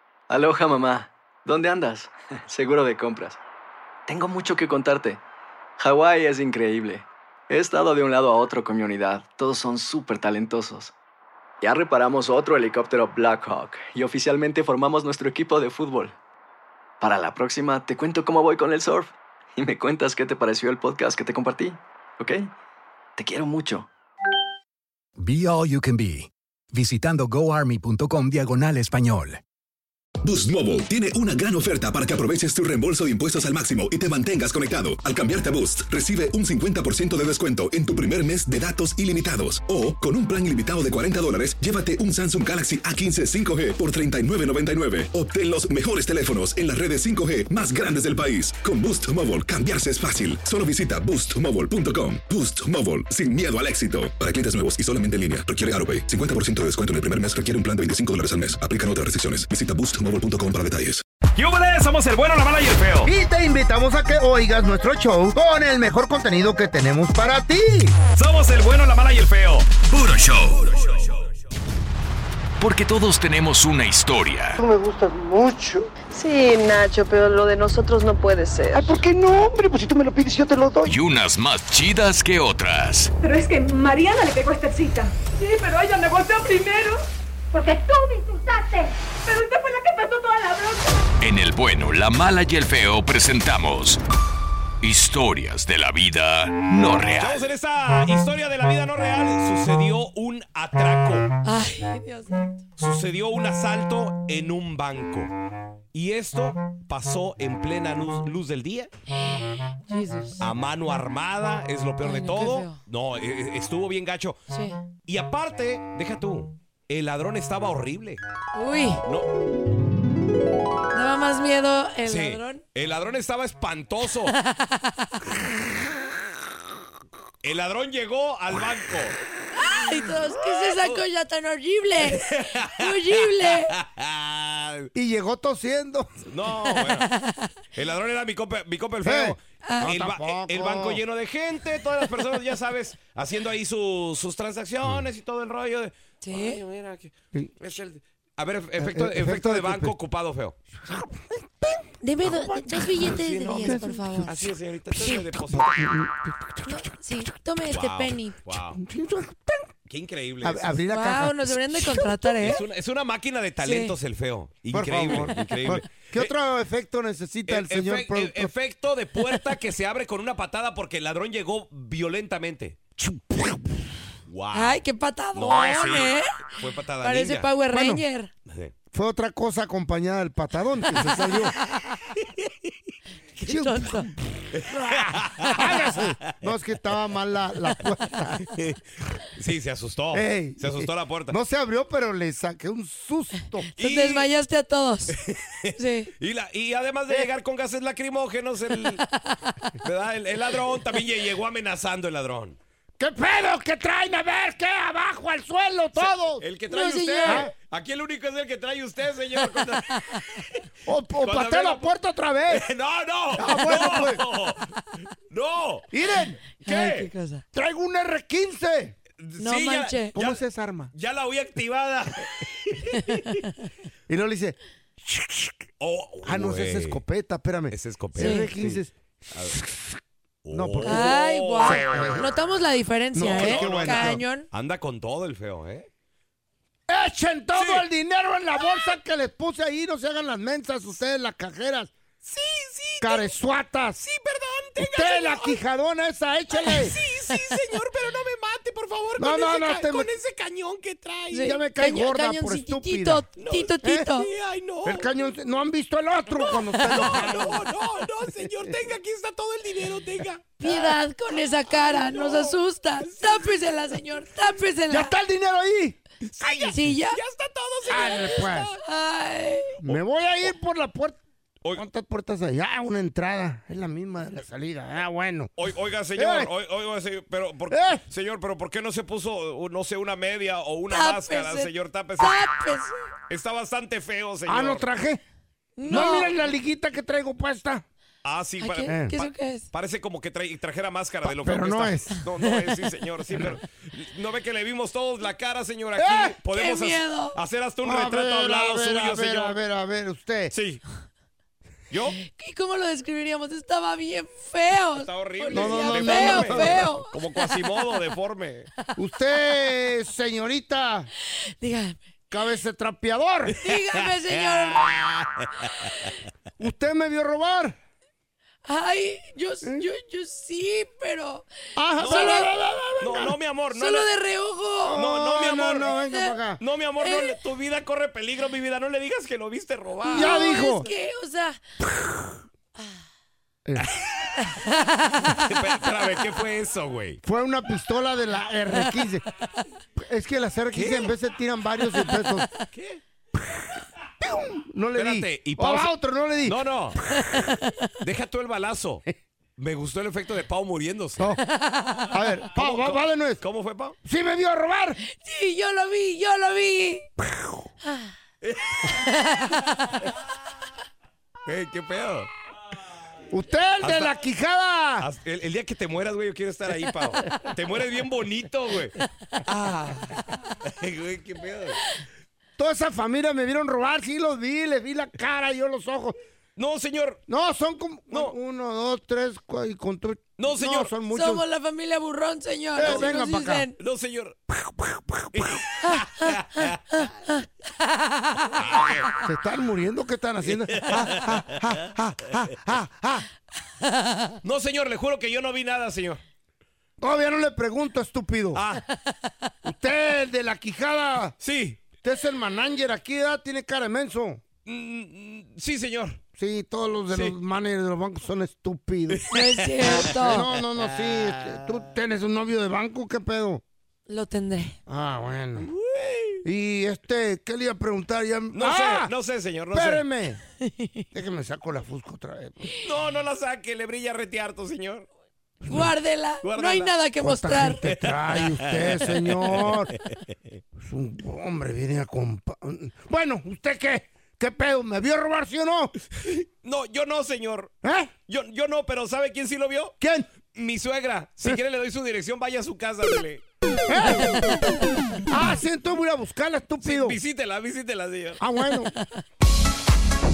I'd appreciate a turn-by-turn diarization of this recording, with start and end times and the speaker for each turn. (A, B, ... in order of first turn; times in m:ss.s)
0:00.3-0:03.4 A
0:04.1-0:05.2 A
0:05.8-0:10.9 A
0:11.6-0:16.1 A
0:17.0-0:22.5 A
0:23.2-0:23.9 A
0:25.2-0:29.4 B
0:30.2-1:01.0 C
1:01.3-1:03.1 D
1:03.0-1:08.0 E
1:08.1-1:10.0 D
1:09.9-1:10.9 F
1:12.6-1:14.6 F
1:14.6-1:15.8 G
1:16.1-1:19.1 H
1:19.1-1:20.9 G
1:20.8-1:23.1 F
1:23.2-1:31.1 I
1:31.2-1:34.0 F
1:34.8-1:37.5 F
1:37.2-1:41.3 D
1:41.4-1:42.6 J
1:42.8-1:45.3 D
1:45.9-1:48.9 D
1:49.2-1:50.4 J
1:50.4-1:54.4 D
1:52.0-1:52.8 J
1:54.5-1:54.8 J
1:55.1-1:58.2 D
1:58.5-1:59.0 J
2:00.9-2:02.6 J
2:02.0-2:04.3 D
2:04.3-2:05.2 J
2:07.4-2:09.2 D
2:09.5-2:13.7 J
2:10.7-2:11.0 D
2:12.0-2:14.9 D
2:14.9-2:16.2 E
2:16.3-2:17.1 D
2:17.0-2:17.5 J
2:17.7-2:30.6 D
2:19.0-2:21.0 E
2:26.2-2:26.6 J
2:28.8-2:29.9 E
2:30.8-2:34.0 E
2:32.0-2:34.4 J
2:33.0-2:35.9 D
2:34.9-2:37.3 E
2:36.6-2:38.4 J
2:37.7-2:38.8 D
2:38.7-2:39.7 E
2:39.9-2:40.8 D
2:40.4-2:42.5 E
2:40.9-2:42.6 J
2:42.4-2:46.3 D
2:43.6-2:43.9 J
2:44.7-2:48.5 E
2:47.4-2:52.8 D
2:53.0-2:53.8 E
2:54.3-2:54.8 D
2:54.5-2:56.5 J
2:55.3-2:57.5 D
2:57.0-2:58.3 J
2:57.7-2:58.0 E
2:58.9-3:01.6 E
3:02.2-3:02.5 D
3:03.4-3:04.1 J
3:03.4-3:08.5 E
3:04.5-3:06.4 D
3:08.4-3:08.8 D
3:09.3-3:11.4 D
3:10.1-3:13.7 E
3:13.7-3:15.2 J
3:13.8-3:14.3 D
3:15.1-3:19.0 D
3:15.8-3:16.1 J
3:19.2-3:19.7 J
3:19.8-3:22.6 D
3:23.0-3:26.5 E
3:26.0-3:30.6 D
3:26.7-3:27.5 J
3:27.2-3:27.5 E
3:29.9-3:30.2 J
3:30.8-3:32.7 E
3:31.2-3:31.9 D
3:32.5-3:34.7 D
3:33.3-3:34.2 E
3:35.3-3:35.8 D
3:35.9-3:36.4 E
3:36.6-3:37.1 D
3:36.6-3:37.4 J
3:37.5-3:38.9 E
3:39.2-3:40.4 D
3:39.4-3:40.1 J
3:40.1-3:40.9 E
3:40.9-3:43.4 D
3:42.9-3:43.2 J
3:44.1-3:45.6 E
3:45.8-3:47.0 D
3:46.2-3:50.0 E
3:47.7-3:48.8 D
3:48.2-3:48.5 J
3:50.4-3:52.3 D
3:50.5-3:52.3 E
3:50.8-3:54.5 J
3:53.1-3:54.2 E
3:53.2-3:55.9 D
3:56.9-4:01.9 E
3:57.5-3:57.8 D
3:58.6-3:58.9 D
4:02.2-4:03.3 D
4:03.0-4:04.0 E
4:04.0-4:05.6 D
4:04.8-4:07.0 E
4:06.5-4:11.5 D
4:09.2-4:10.1 E
4:11.3-4:14.3 J
4:11.3-4:13.3 E
4:13.4-4:15.1 D
4:13.8-4:14.1 E
4:14.8-4:18.8 E
4:16.3-4:21.0 D
4:20.6-4:25.1 J
4:21.6-4:23.6 D
4:24.9-4:26.0 E
4:26.3-4:28.8 D
4:26.7-4:27.2 J
4:27.8-4:28.7 E
4:28.8-4:29.7 J
4:29.8-4:31.2 E
4:31.8-4:35.5 E
4:35.6-4:42.5 D
4:36.2-4:36.5 E
4:37.7-4:38.0 E
4:40.9-4:42.9 J
4:43.3-4:44.9 D
4:44.4-4:45.2 E
4:45.8-4:46.3 J
4:45.8-4:47.8 E
4:48.2-4:59.6 D
4:48.6-4:49.6 J
4:48.8-4:49.2 E
4:51.2-4:52.2 E
4:56.0-4:56.4 E
4:56.5-4:57.3 J
4:57.8-5:00.5 E
5:00.5-5:00.8 D
5:01.9-5:02.2 D
5:02.3-5:07.1 J
5:05.0-5:08.7 D
5:05.5-5:06.9 E
5:09.0-5:11.1 E
5:11.6-5:12.0 J
5:12.3-5:13.6 E
5:13.6-5:15.8 D
5:13.6-5:14.9 J
5:16.6-5:17.8 E
5:18.6-5:21.4 J
5:21.8-5:23.3 E
5:22.0-5:22.5 J
5:22.0-5:24.1 D
5:23.7-5:25.0 J
5:24.8-5:26.6 E
5:25.0-5:25.9 D
5:26.6-5:30.6 D
5:27.0-5:27.3 J
5:30.1-5:30.8 E
5:30.1-5:31.6 J
5:33.8-5:34.3 D
5:34.4-5:35.4 J
5:35.2-5:37.2 D
5:37.2-5:39.2 E
5:40.0-5:42.5 E
5:40.7-5:41.1 D
5:42.7-5:43.0 D
5:44.2-5:46.6 E
5:44.9-5:45.9 D
5:46.4-5:47.0 D
5:47.1-5:47.9 J
5:48.0-5:49.0 D
5:49.6-5:51.3 D
5:51.5-5:52.1 J
5:52.1-5:53.4 E
5:52.5-5:53.9 D
5:54.0-5:55.0 E
5:55.0-5:57.0 J
5:57.2-5:57.6 E
5:57.8-5:58.1 J
5:58.4-5:58.9 D
5:58.9-5:59.6 J
6:01.4-6:02.3 D
6:03.3-6:05.1 E
6:03.8-6:04.2 D
6:05.0-6:11.8 D
6:12.6-6:16.2 E
6:16.6-6:17.2 D
6:17.3-6:21.4 E
6:20.4-6:20.9 D
6:21.1-6:23.7 J
6:22.8-6:23.7 E
6:22.8-6:23.1 D
6:23.8-6:24.4 D
6:24.5-6:25.6 E
6:25.3-6:27.0 D
6:25.8-6:26.3 J
6:26.9-6:28.5 J
6:28.5-6:29.1 D
6:29.2-6:33.2 E
6:30.4-6:31.8 D
6:34.0-6:34.3 J
6:34.4-6:36.2 D
6:37.0-6:38.6 E
6:38.5-6:38.8 D
6:39.6-6:41.4 E
6:41.4-6:41.9 D
6:42.0-6:44.4 E
6:44.6-6:46.2 D
6:46.4-6:49.2 E
6:47.1-6:47.4 D
6:49.1-6:51.7 D
6:49.3-6:50.4 J
6:50.1-6:53.6 E
6:54.1-6:54.8 J
6:54.9-6:55.7 E
6:55.6-6:56.4 D
6:56.4-6:59.1 E
6:58.5-7:00.0 D
6:59.7-7:00.4 E
7:00.6-7:01.0 J
7:01.1-7:02.7 E
7:02.8-7:05.1 D
7:05.6-7:05.9 E
7:05.7-7:07.8 J
7:06.4-7:06.9 D
7:07.2-7:09.9 E
7:07.8-7:09.8 D
7:10.8-7:15.9 E
7:16.2-7:17.7 D
7:17.8-7:18.1 E
7:18.3-7:19.9 D
7:20.0-7:20.3 E
7:20.5-7:23.4 D
7:23.9-7:24.6 E
7:25.2-7:27.2 E
7:26.8-7:28.4 D
7:28.4-7:28.9 E